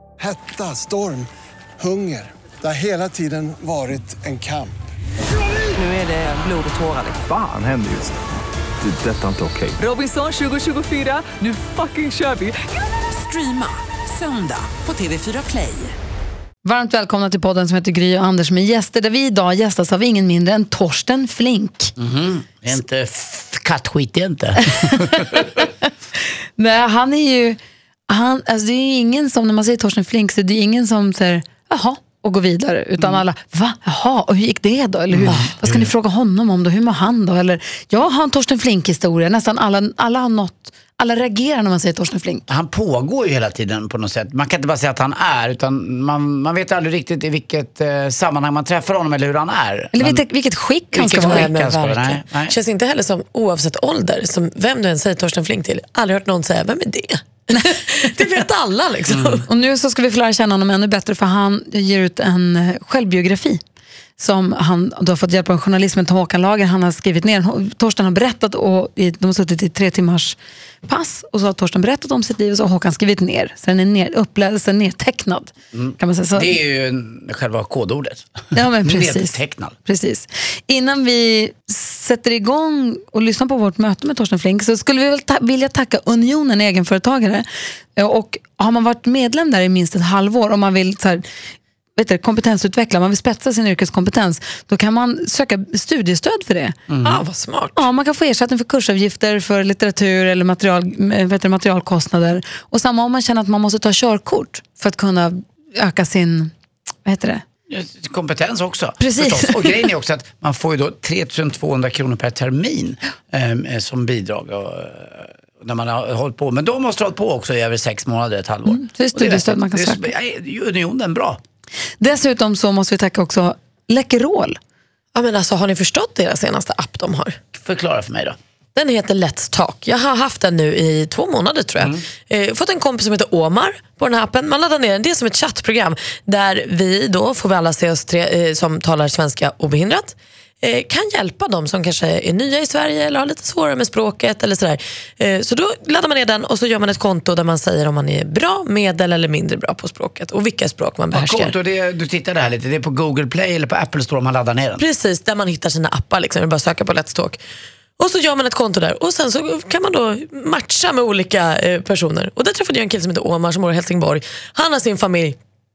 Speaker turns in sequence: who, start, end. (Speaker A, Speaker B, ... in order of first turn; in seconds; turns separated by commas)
Speaker A: 0.2-4.8, Speaker B: 5.8-7.2, Speaker C: 7.0-8.2, Speaker C: 8.8-9.8, Speaker B: 9.8-15.9, Speaker D: 16.6-21.9, Speaker E: 22.0-25.4, Speaker D: 25.2-25.7, Speaker D: 26.6-27.6, Speaker D: 28.1-42.4, Speaker E: 35.1-35.8, Speaker E: 42.5-50.2, Speaker D: 49.9-51.5, Speaker E: 50.9-52.5, Speaker F: 51.2-59.5, Speaker D: 57.6-58.2, Speaker E: 59.1-59.5, Speaker D: 59.5-63.6, Speaker D: 64.2-76.5, Speaker E: 75.7-79.7, Speaker D: 78.5-91.2, Speaker D: 92.0-96.8, Speaker E: 96.9-97.2, Speaker F: 97.0-97.8, Speaker D: 97.7-106.5, Speaker D: 107.0-107.4, Speaker E: 107.7-121.4, Speaker D: 109.0-109.8, Speaker D: 118.7-120.1, Speaker D: 122.0-124.6, Speaker F: 125.1-127.4, Speaker E: 127.5-128.4, Speaker F: 128.7-151.5, Speaker E: 151.1-154.8, Speaker F: 154.8-157.4, Speaker F: 158.0-165.4